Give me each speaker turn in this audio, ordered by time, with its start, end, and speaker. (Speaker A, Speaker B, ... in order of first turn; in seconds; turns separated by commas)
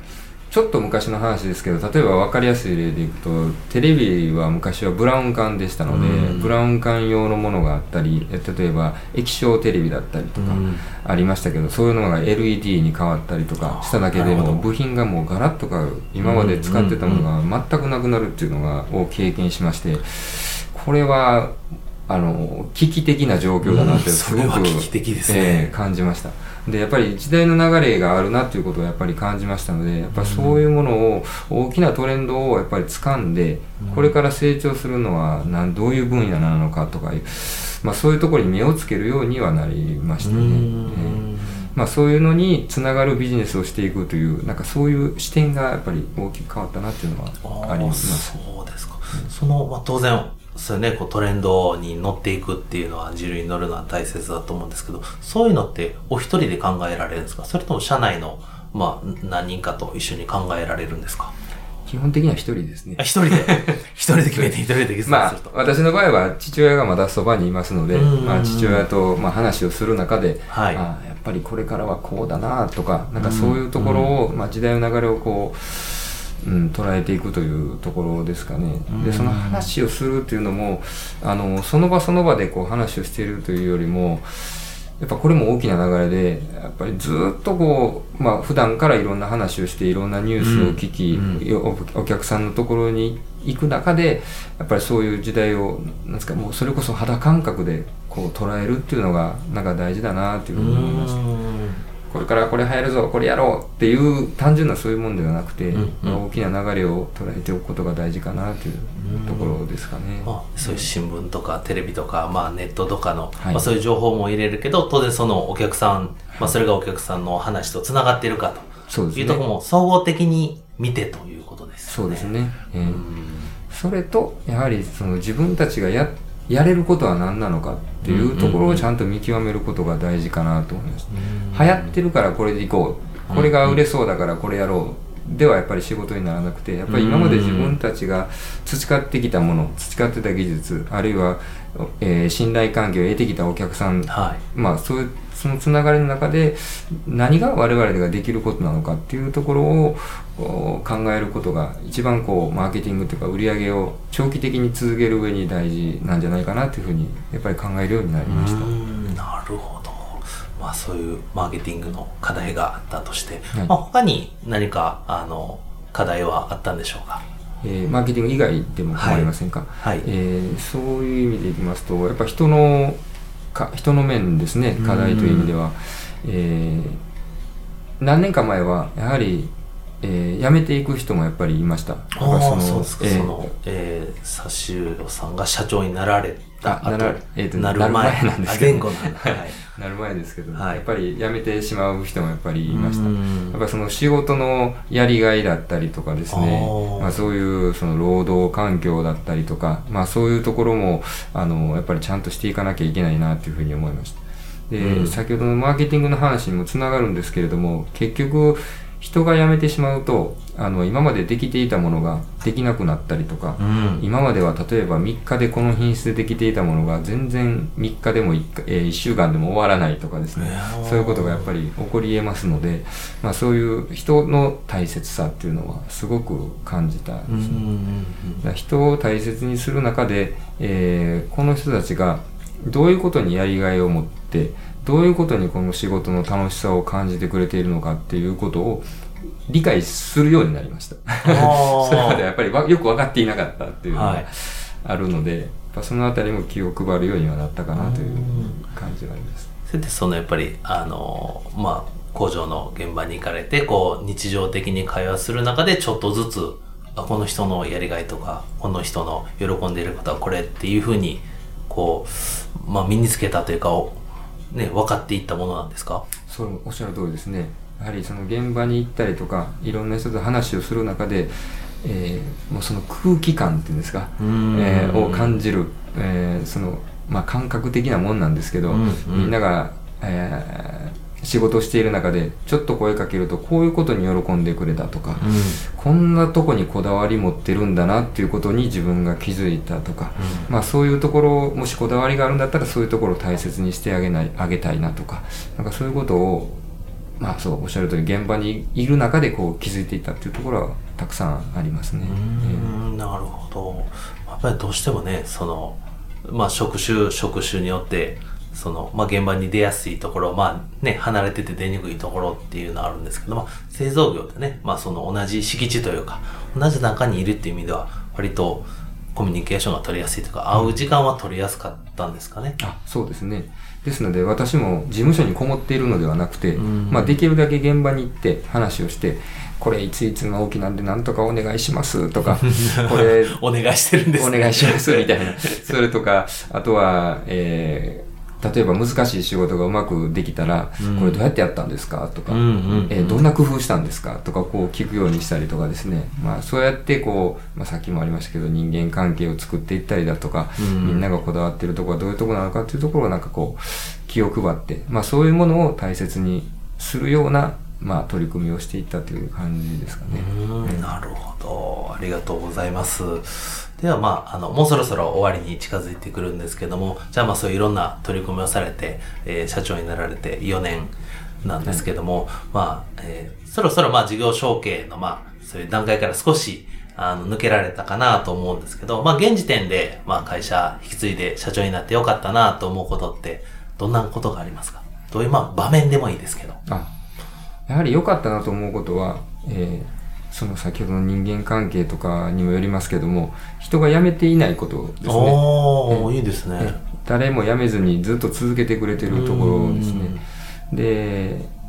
Speaker A: 0.5-21.6, Speaker B: 5.9-6.5, Speaker B: 10.3-10.9, Speaker B: 13.6-14.6, Speaker B: 16.2-17.3, Speaker A: 22.1-48.4, Speaker B: 23.6-25.8, Speaker B: 30.1-30.6, Speaker B: 33.8-34.2, Speaker B: 40.2-41.7, Speaker B: 47.4-61.3, Speaker A: 61.9-63.8, Speaker B: 63.0-65.5, Speaker A: 64.3-101.2, Speaker B: 67.9-68.9, Speaker B: 70.5-70.8, Speaker B: 73.2-74.2, Speaker B: 78.9-79.7, Speaker B: 90.4-91.5, Speaker B: 100.5-101.8, Speaker A: 102.1-110.9, Speaker B: 105.7-106.2, Speaker B: 109.0-109.6, Speaker B: 110.2-123.5, Speaker A: 113.4-113.6, Speaker A: 118.9-119.4, Speaker A: 121.9-123.0, Speaker A: 123.7-158.7, Speaker B: 128.0-128.9, Speaker B: 131.1-131.9, Speaker B: 133.3-133.8, Speaker B: 136.9-137.8, Speaker B: 144.1-144.4, Speaker B: 158.2-167.2, Speaker A: 167.6-173.0, Speaker B: 168.9-170.1, Speaker A: 173.5-177.0, Speaker B: 174.8-175.6, Speaker A: 178.0-183.5, Speaker B: 182.2-189.7, Speaker A: 186.6-204.2, Speaker B: 190.5-190.9, Speaker B: 192.7-193.6, Speaker B: 196.3-197.2, Speaker A: 204.7-227.7, Speaker B: 204.8-205.2, Speaker B: 213.6-214.1, Speaker B: 220.3-221.5, Speaker B: 227.3-228.5, Speaker A: 228.4-238.9, Speaker A: 239.5-249.5, Speaker B: 241.2-242.2, Speaker B: 243.9-244.3, Speaker B: 247.7-248.6, Speaker B: 249.7-266.1, Speaker A: 266.3-296.6, Speaker B: 274.2-275.4, Speaker B: 278.7-279.4, Speaker B: 285.2-285.6, Speaker B: 290.2-290.5, Speaker A: 297.2-302.8, Speaker B: 302.0-322.6, Speaker A: 320.5-320.8, Speaker A: 322.6-333.4, Speaker B: 326.6-327.2, Speaker B: 332.3-335.8, Speaker A: 334.1-360.9, Speaker B: 340.8-341.2, Speaker B: 342.3-343.3, Speaker B: 350.6-351.1, Speaker B: 360.0-386.6, Speaker A: 386.7-386.9, Speaker A: 387.7-400.2, Speaker B: 395.0-396.8, Speaker B: 399.0-400.2, Speaker A: 400.7-401.5